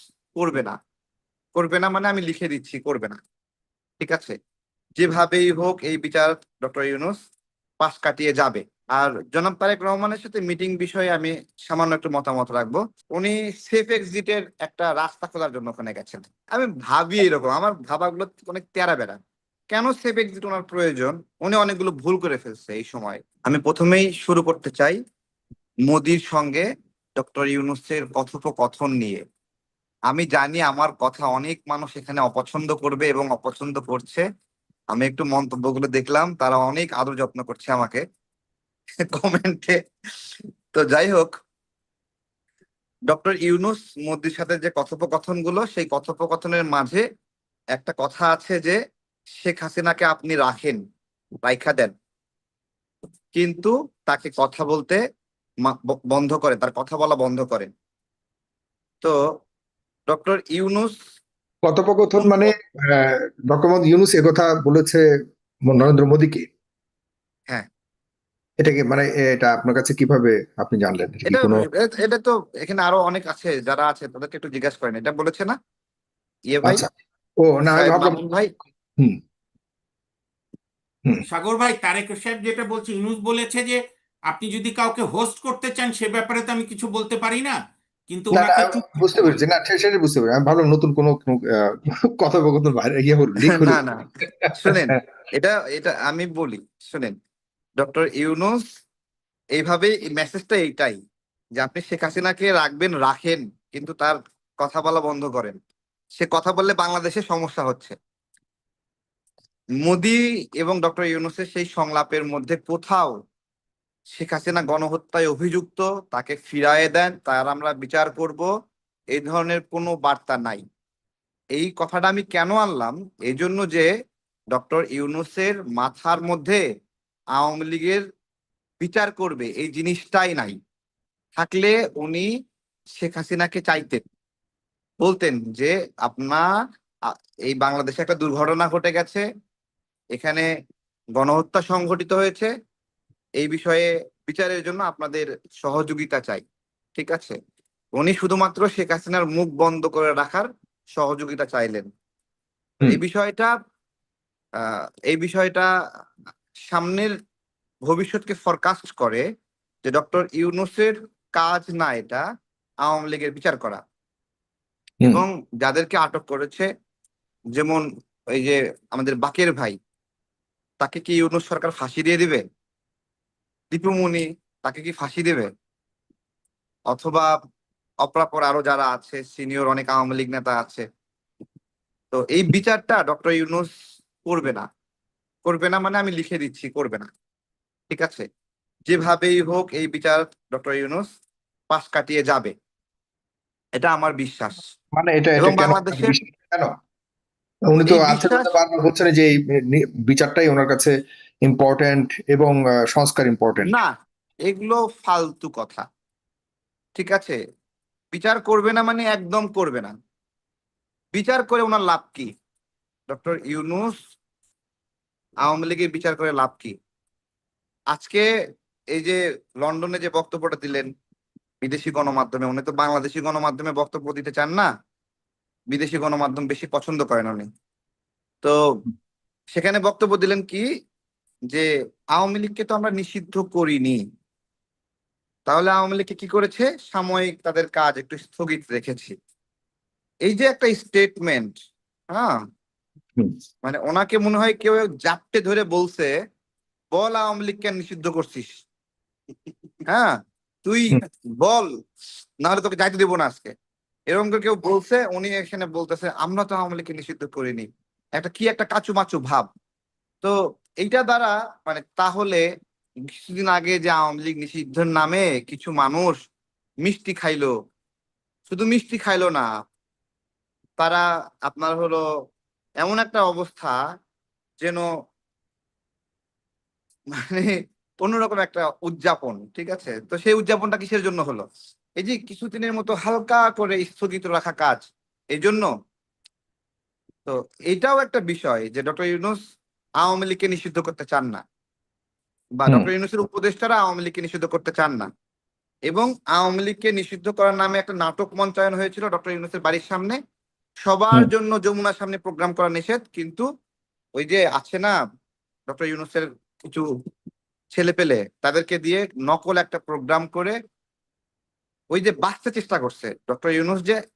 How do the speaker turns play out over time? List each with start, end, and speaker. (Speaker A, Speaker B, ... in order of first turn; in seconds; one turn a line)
Speaker A: 0.3-0.8
Speaker A: 1.6-3.2
Speaker A: 4.0-4.3
Speaker A: 5.0-7.2
Speaker A: 7.8-19.2
Speaker A: 19.7-25.0
Speaker A: 25.9-26.7
Speaker A: 27.2-29.2
Speaker A: 30.1-34.2
Speaker A: 34.9-38.0
Speaker A: 39.1-39.8
Speaker A: 40.7-41.3
Speaker A: 43.1-47.0
Speaker A: 47.8-48.8
Speaker A: 49.4-50.8
Speaker A: 51.4-51.9
Speaker A: 53.4-55.0
Speaker A: 55.6-57.7
Speaker A: 60.1-61.0
Speaker B: 61.6-65.1
Speaker B: 65.7-66.5
Speaker B: 68.6-71.7
Speaker A: 71.3-75.6
Speaker A: 76.5-76.8
Speaker B: 76.6-76.9
Speaker B: 77.4-78.2
Speaker A: 77.7-78.5
Speaker C: 81.3-87.6
Speaker C: 88.1-89.4
Speaker B: 88.3-93.8
Speaker A: 93.5-94.0
Speaker B: 94.4-95.0
Speaker A: 94.6-97.2
Speaker A: 97.8-98.6
Speaker A: 99.6-101.0
Speaker A: 101.6-105.5
Speaker A: 106.2-108.0
Speaker A: 109.8-113.1
Speaker A: 114.2-118.5
Speaker A: 119.1-120.6
Speaker A: 121.6-123.9
Speaker A: 124.5-126.6
Speaker A: 127.4-128.0
Speaker A: 128.8-130.6
Speaker A: 131.4-132.3
Speaker A: 133.0-134.0
Speaker A: 135.0-136.5
Speaker A: 137.1-139.2
Speaker A: 140.2-140.5
Speaker A: 141.2-142.5
Speaker A: 143.4-146.4
Speaker A: 147.0-147.3
Speaker A: 148.0-151.9
Speaker A: 152.8-153.5
Speaker A: 154.6-155.7
Speaker A: 156.7-157.1
Speaker A: 157.9-159.2
Speaker A: 159.9-162.2
Speaker A: 162.8-163.8
Speaker A: 165.1-166.7
Speaker A: 167.6-169.8
Speaker A: 170.8-172.4
Speaker A: 173.7-175.5
Speaker A: 176.9-177.3
Speaker A: 178.0-180.9
Speaker A: 182.1-183.7
Speaker A: 184.2-184.7
Speaker A: 185.5-187.1
Speaker A: 187.9-188.2
Speaker A: 188.9-191.1
Speaker A: 191.7-192.5
Speaker A: 193.8-194.6
Speaker B: 195.0-196.7
Speaker A: 195.4-196.1
Speaker B: 197.7-203.7
Speaker A: 197.9-198.5
Speaker A: 203.6-203.9
Speaker A: 204.5-205.8
Speaker A: 207.0-207.4
Speaker A: 208.1-209.9
Speaker A: 211.2-212.3
Speaker A: 213.1-214.0
Speaker A: 215.4-216.8
Speaker A: 217.9-218.3
Speaker A: 218.9-220.9
Speaker A: 221.6-224.7
Speaker A: 225.7-227.5
Speaker A: 229.5-230.7
Speaker A: 231.5-234.0
Speaker A: 235.5-239.1
Speaker A: 240.3-241.5
Speaker A: 242.1-242.4
Speaker A: 243.7-246.1
Speaker A: 246.9-248.5
Speaker A: 249.9-251.7
Speaker A: 252.4-253.5
Speaker A: 254.1-259.5
Speaker A: 260.2-262.4
Speaker A: 263.1-266.1
Speaker A: 266.9-267.5
Speaker A: 268.5-269.5
Speaker A: 270.8-272.0
Speaker A: 272.8-273.8
Speaker A: 274.6-274.9
Speaker A: 277.2-281.4
Speaker A: 282.0-284.8
Speaker A: 285.3-285.7
Speaker A: 287.3-289.4
Speaker A: 290.0-291.4
Speaker A: 292.6-295.1
Speaker A: 295.9-300.2
Speaker A: 300.9-303.5
Speaker A: 304.2-305.0
Speaker A: 305.7-306.9
Speaker A: 307.7-310.6
Speaker A: 311.9-314.0